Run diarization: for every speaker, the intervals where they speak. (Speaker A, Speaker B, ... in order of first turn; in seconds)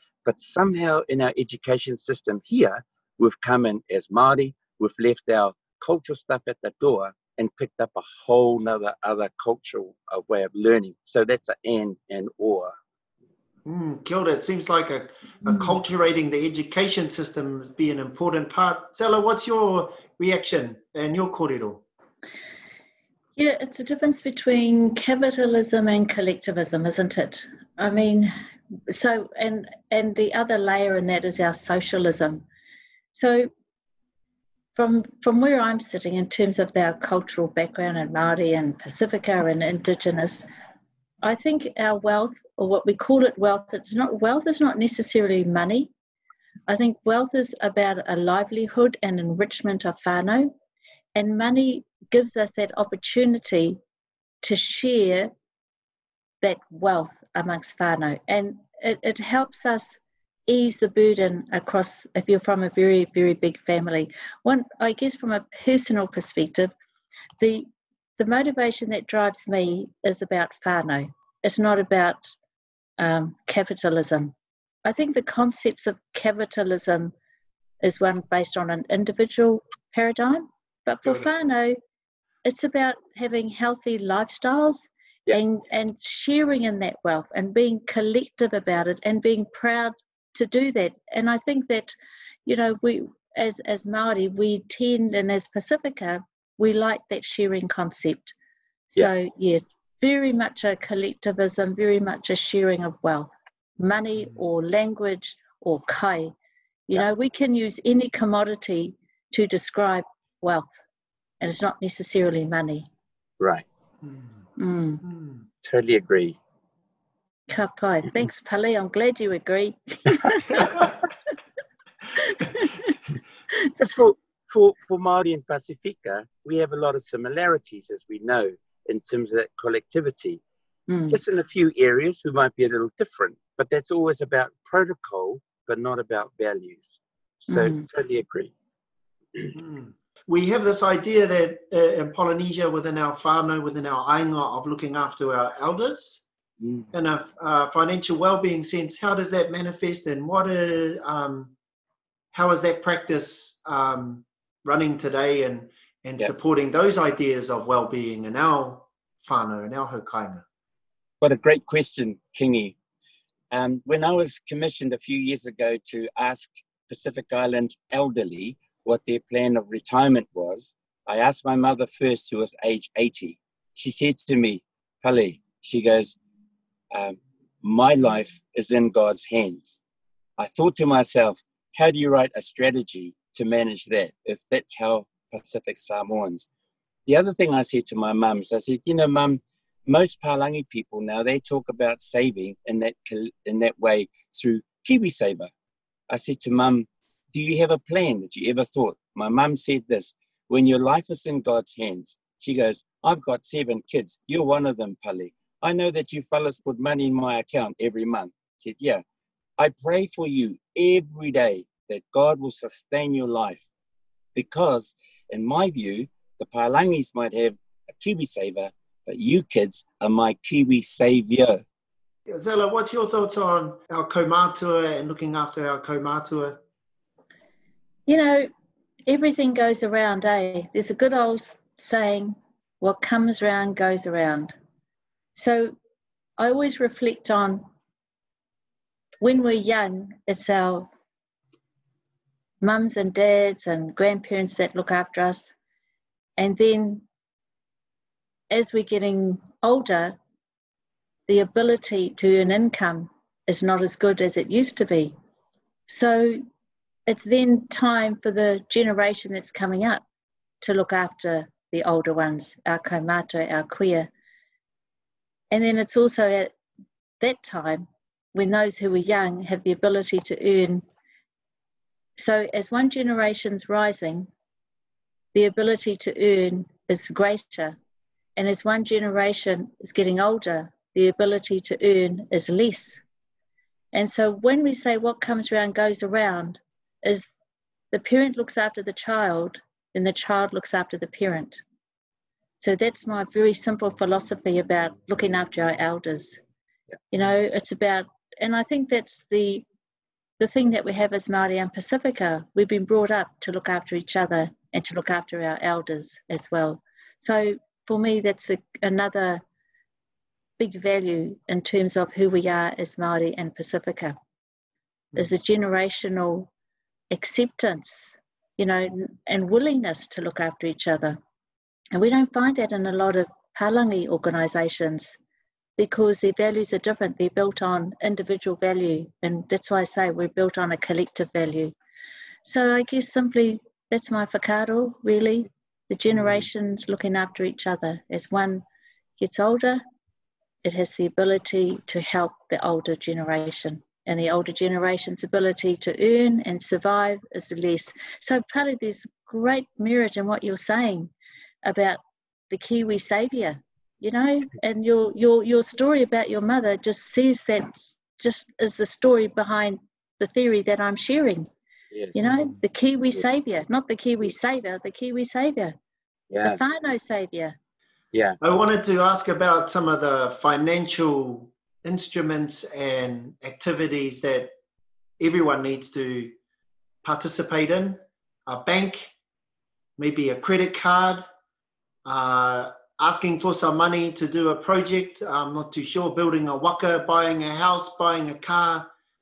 Speaker A: 0.2-12.7, 113.4-113.6, 115.6-116.4, 123.8-130.4, 131.1-138.5, 161.2-162.7, 163.5-176.2, 176.9-179.8, 180.4-186.5, 187.1-195.5, 196.1-209.0, 209.6-213.6, 214.3-221.6, 361.9-362.2, 366.3-366.6, 368.1-368.4
Speaker B: 13.6-21.8, 114.0-114.3, 115.1-115.3, 139.5-146.2, 146.9-151.5, 152.3-160.4, 222.3-226.6, 336.2-336.5, 368.4-374.5, 375.2-376.3, 377.0-379.1, 380.0-381.2, 382.0-388.9
Speaker C: 23.4-28.3, 28.9-32.4, 33.1-33.5, 34.8-40.4, 41.2-45.9, 46.7-50.5, 51.1-53.8, 54.4-55.3, 56.4-66.7, 67.4-67.7, 68.2-72.3, 73.0-74.3, 74.8-77.1, 77.8-81.8, 82.4-98.3, 98.9-106.3, 106.9-110.7, 111.4-112.9, 114.6-115.0, 117.5-120.9, 130.9-131.2, 137.5-137.8, 228.1-228.5, 229.1-234.5, 235.3-235.8, 236.4-237.6, 239.2-240.9, 242.6-245.5, 246.4-247.0, 248.5-250.2, 251.3-255.1, 255.9-256.4, 257.1-260.0, 260.6-264.1, 265.5-266.5, 267.2-270.8, 272.2-274.3, 275.3-277.8, 278.4-283.0, 283.9-287.3, 287.9-291.6, 292.6-296.4, 297.1-299.6, 300.4-309.4, 310.6-314.1, 315.1-316.5, 317.1-321.2, 321.9-325.1, 325.8-331.7, 332.4-338.6, 339.2-339.8, 340.6-351.1, 351.6-361.5, 362.1-365.7, 366.4-367.5